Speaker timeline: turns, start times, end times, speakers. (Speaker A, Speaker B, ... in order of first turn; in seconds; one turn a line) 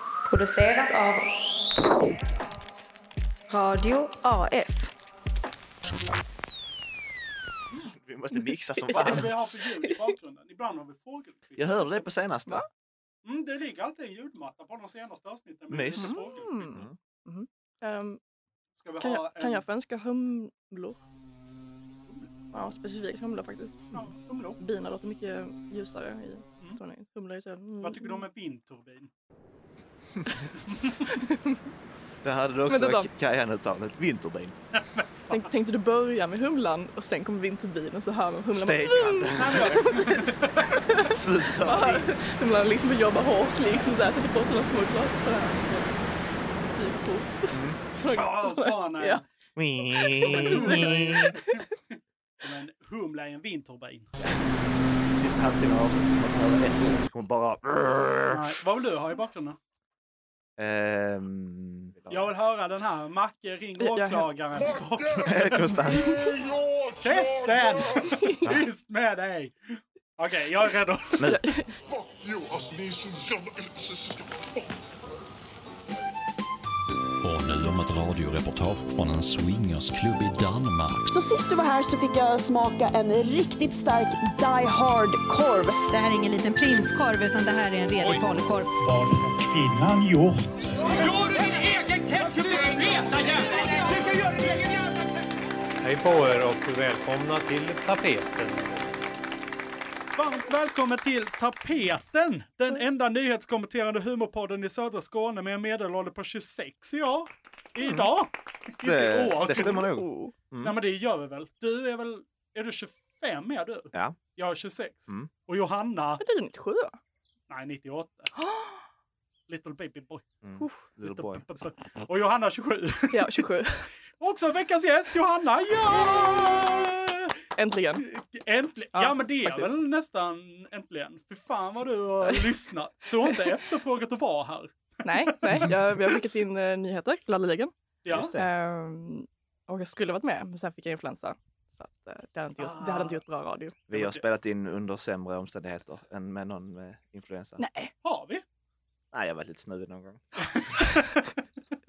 Speaker A: 0.2-2.2
Speaker A: 3.5-4.9
Speaker B: 7.8-9.3
Speaker C: 8.9-12.1
Speaker B: 11.6-12.7
Speaker C: 13.2-16.8
Speaker B: 15.7-16.9
Speaker D: 16.0-18.2
Speaker C: 18.8-19.6
Speaker D: 19.0-21.0
Speaker D: 22.5-28.2
Speaker C: 23.9-24.6
Speaker C: 27.8-29.1
Speaker C: 30.7-31.1
Speaker D: 31.1-31.6
Speaker B: 32.2-34.5
Speaker D: 32.7-33.1
Speaker C: 34.7-35.5
Speaker D: 35.3-46.0
Speaker B: 38.5-39.8
Speaker C: 39.3-40.8
Speaker B: 41.1-42.1
Speaker D: 46.6-49.2
Speaker B: 47.5-47.8
Speaker C: 48.1-49.2
Speaker B: 49.5-51.3
Speaker D: 49.9-51.5
Speaker C: 50.1-54.1
Speaker B: 55.1-58.5
Speaker C: 58.3-59.6
Speaker B: 60.6-62.3
Speaker C: 62.1-66.0
Speaker D: 63.8-64.3
Speaker E: 64.5-68.2
Speaker B: 65.2-66.1
Speaker C: 67.0-69.5
Speaker D: 68.1-68.4
Speaker C: 70.2-71.2
Speaker D: 71.2-71.7
Speaker E: 71.9-74.4
Speaker F: 77.2-81.1
Speaker G: 81.1-85.8
Speaker H: 85.9-88.7
Speaker C: 88.8-94.7
Speaker I: 95.8-98.9
Speaker C: 100.2-109.9
Speaker B: 107.8-108.1
Speaker B: 108.8-110.8
Speaker D: 109.9-110.3
Speaker C: 110.6-116.2
Speaker B: 113.9-114.2
Speaker D: 116.2-117.0
Speaker C: 117.5-118.3
Speaker D: 118.3-118.8
Speaker C: 119.5-120.2
Speaker B: 120.4-121.4
Speaker D: 120.6-120.8
Speaker C: 121.0-123.4
Speaker D: 123.1-123.9
Speaker C: 124.2-127.3
Speaker D: 127.6-128.0
Speaker C: 128.0-135.8
Speaker D: 128.9-129.8
Speaker D: 133.2-133.5
Speaker D: 135.0-137.7
Speaker C: 138.0-138.4
Speaker B: 138.1-138.5
Speaker D: 138.3-143.8
Speaker C: 142.6-143.2
Speaker B: 143.9-147.6
Speaker C: 143.9-144.2
Speaker D: 147.6-147.9
Speaker C: 148.0-148.4
Speaker B: 149.1-150.2
Speaker C: 150.4-151.3